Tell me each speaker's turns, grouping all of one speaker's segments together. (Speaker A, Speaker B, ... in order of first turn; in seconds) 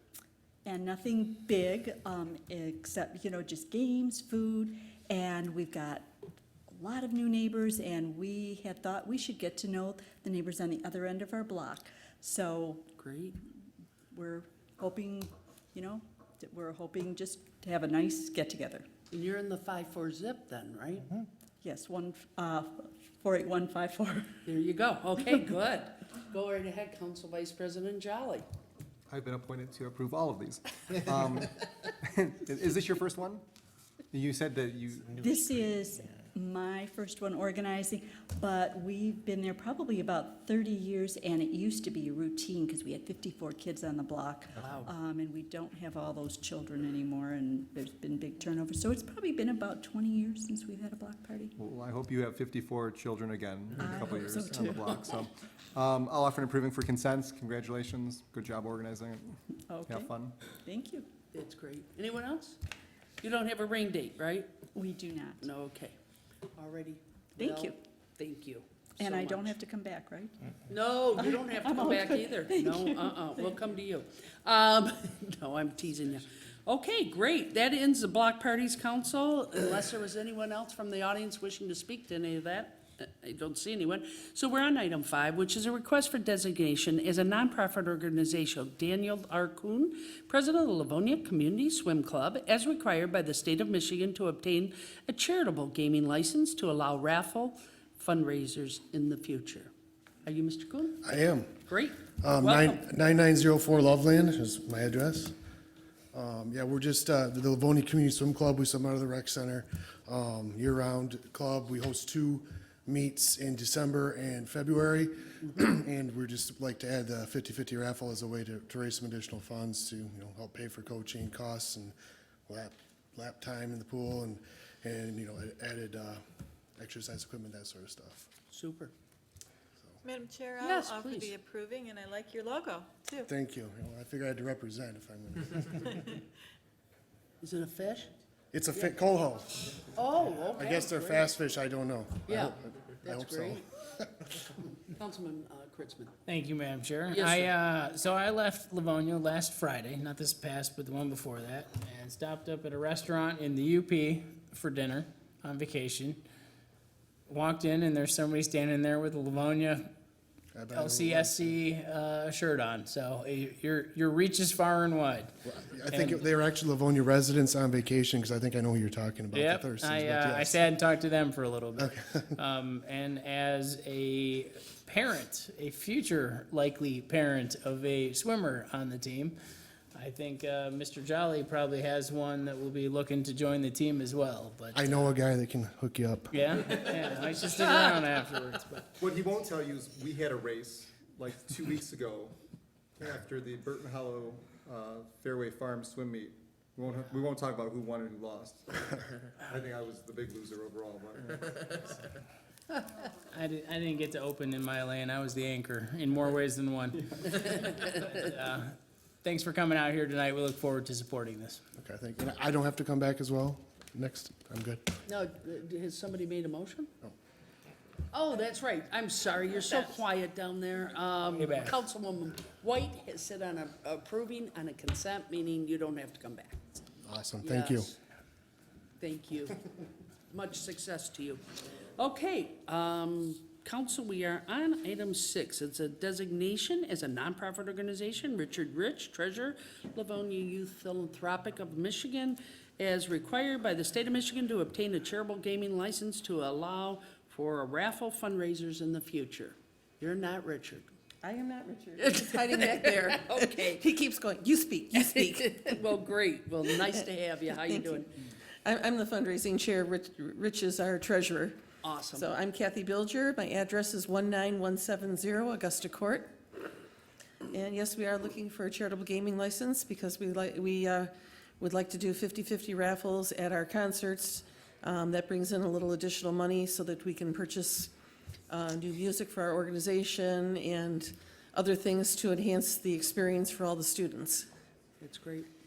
Speaker A: 0.7-6.1, 6.7-12.9, 14.1-18.9, 21.6-24.3, 35.2-51.5, 53.8-54.8, 59.7-61.1, 64.7-65.5, 67.4-67.8, 69.0-70.4, 71.2-73.2
Speaker B: 13.0-13.4, 19.1-21.2, 24.4-28.4, 61.3-62.6, 63.2-64.5, 65.4-66.0, 66.6-69.5, 70.7-99.7, 100.2-101.0, 101.7-102.8, 128.5-128.9, 130.6-131.3, 137.4-138.1, 139.9-141.3, 142.3-143.6, 144.6-146.1, 147.1-147.5, 215.1-216.9, 218.1-226.6, 227.4-227.9, 229.0-229.7, 230.3-231.4, 232.0-250.9, 252.0-253.8, 254.9-258.1, 261.8-262.3, 285.0-285.5
Speaker C: 29.1-33.4, 34.1-35.7, 51.6-60.3, 189.0-192.3, 193.0-202.0
Speaker D: 101.0-101.6, 102.2-105.3, 106.1-121.9, 122.5-126.2, 126.8-128.3, 133.3-136.2, 138.5-139.8, 140.5-144.1, 160.5-161.5, 165.4-170.6, 171.8-172.3, 184.7-186.8, 211.8-214.9, 227.0-227.9
Speaker E: 130.0-133.2
Speaker F: 146.2-156.2, 157.3-159.9, 160.7-165.3, 165.9-166.2, 169.3-179.3, 179.9-184.8, 186.3-189.0, 203.3-211.6, 221.3-221.8
Speaker G: 251.2-255.8, 256.7-261.6, 262.1-266.7, 267.5-277.9, 278.5-284.5